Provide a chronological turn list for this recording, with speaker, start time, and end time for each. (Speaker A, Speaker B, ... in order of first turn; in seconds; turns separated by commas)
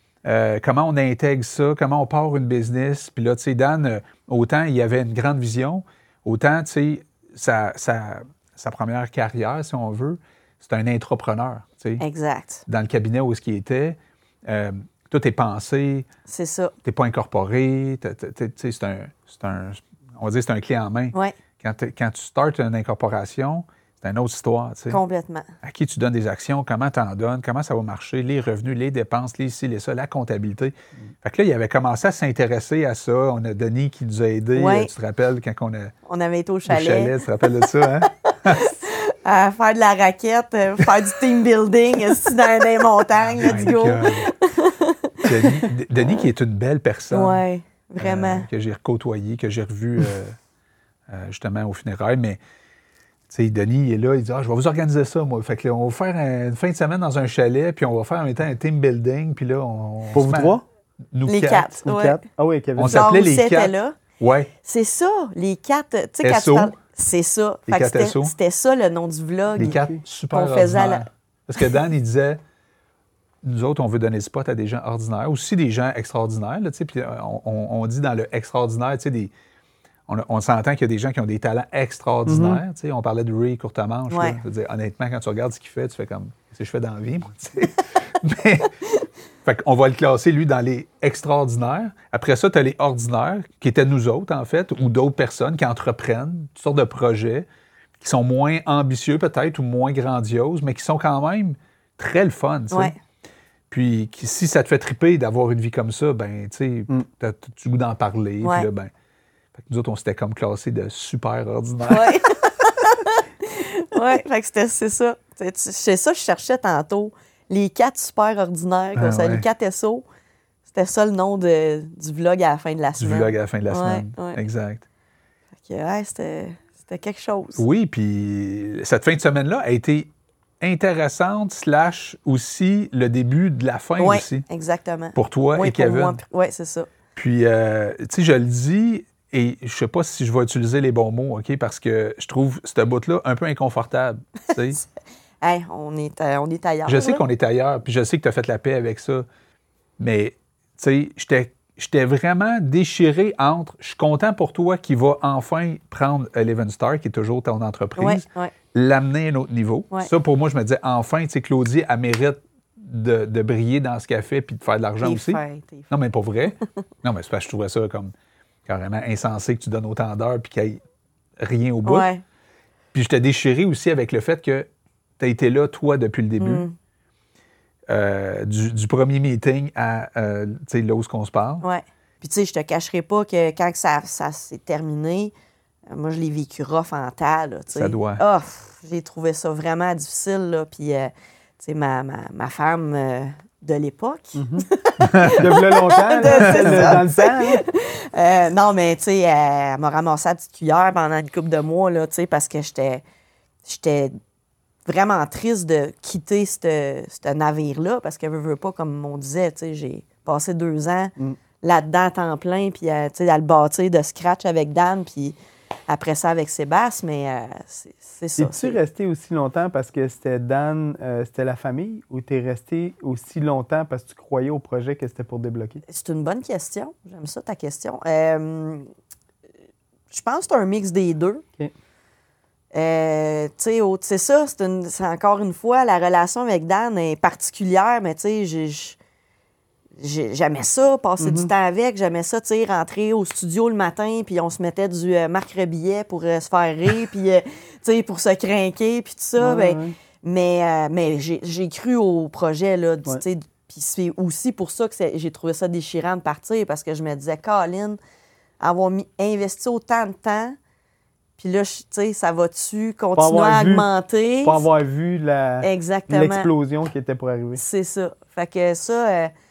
Speaker A: 0.2-12.0, Speaker B: 12.0-12.6, Speaker A: 12.7-16.1, Speaker B: 16.3-16.7, Speaker A: 16.8-25.0, Speaker B: 24.9-25.5, Speaker A: 25.6-35.9, Speaker B: 34.5-34.9, Speaker B: 36.1-37.9, Speaker A: 36.7-38.7, Speaker B: 38.5-45.6, Speaker A: 43.2-44.3, Speaker C: 43.4-43.7, Speaker A: 45.2-47.4, Speaker B: 47.1-48.5, Speaker A: 48.0-50.4, Speaker A: 51.1-52.4, Speaker A: 53.3-60.6, Speaker C: 60.1-60.6, Speaker A: 61.1-61.7, Speaker B: 61.3-62.2, Speaker C: 61.8-63.1, Speaker A: 62.8-64.5, Speaker B: 62.9-64.0, Speaker B: 64.6-69.8, Speaker A: 66.2-66.7, Speaker A: 67.7-68.3, Speaker C: 69.6-70.0, Speaker A: 69.6-72.4, Speaker B: 70.3-71.0, Speaker A: 73.4-79.3, Speaker A: 80.1-88.7, Speaker C: 82.3-82.6, Speaker B: 84.1-84.4, Speaker A: 89.5-97.5, Speaker A: 98.0-102.9, Speaker A: 103.7-108.9, Speaker B: 108.4-108.7, Speaker A: 109.6-112.2, Speaker B: 111.9-120.0, Speaker A: 119.0-119.5, Speaker B: 120.7-124.4, Speaker A: 123.0-124.8, Speaker B: 125.6-127.6, Speaker A: 127.6-134.4, Speaker B: 134.0-136.9, Speaker A: 135.2-136.2, Speaker A: 137.2-144.8, Speaker B: 145.4-147.2, Speaker A: 146.9-149.3, Speaker A: 150.0-168.1, Speaker B: 158.0-158.5, Speaker B: 165.0-165.9, Speaker A: 168.7-170.8, Speaker A: 171.4-172.1, Speaker B: 171.8-172.2, Speaker A: 172.9-174.7, Speaker A: 175.2-176.7, Speaker B: 176.4-176.7, Speaker A: 177.9-181.6, Speaker B: 181.6-185.3, Speaker B: 185.9-203.0, Speaker A: 187.7-188.2, Speaker C: 194.4-194.7, Speaker A: 195.0-195.4, Speaker C: 195.2-197.6, Speaker A: 196.4-197.0, Speaker B: 203.7-204.2, Speaker B: 204.9-215.4, Speaker B: 215.9-218.8, Speaker C: 218.4-225.8, Speaker B: 225.9-228.9, Speaker B: 230.1-231.4, Speaker B: 232.7-239.0, Speaker B: 240.0-258.0, Speaker C: 241.2-241.5, Speaker C: 249.4-249.9, Speaker B: 258.6-260.6, Speaker B: 261.4-264.6, Speaker C: 263.1-263.9, Speaker C: 264.4-267.6, Speaker B: 265.6-266.5, Speaker B: 267.6-269.3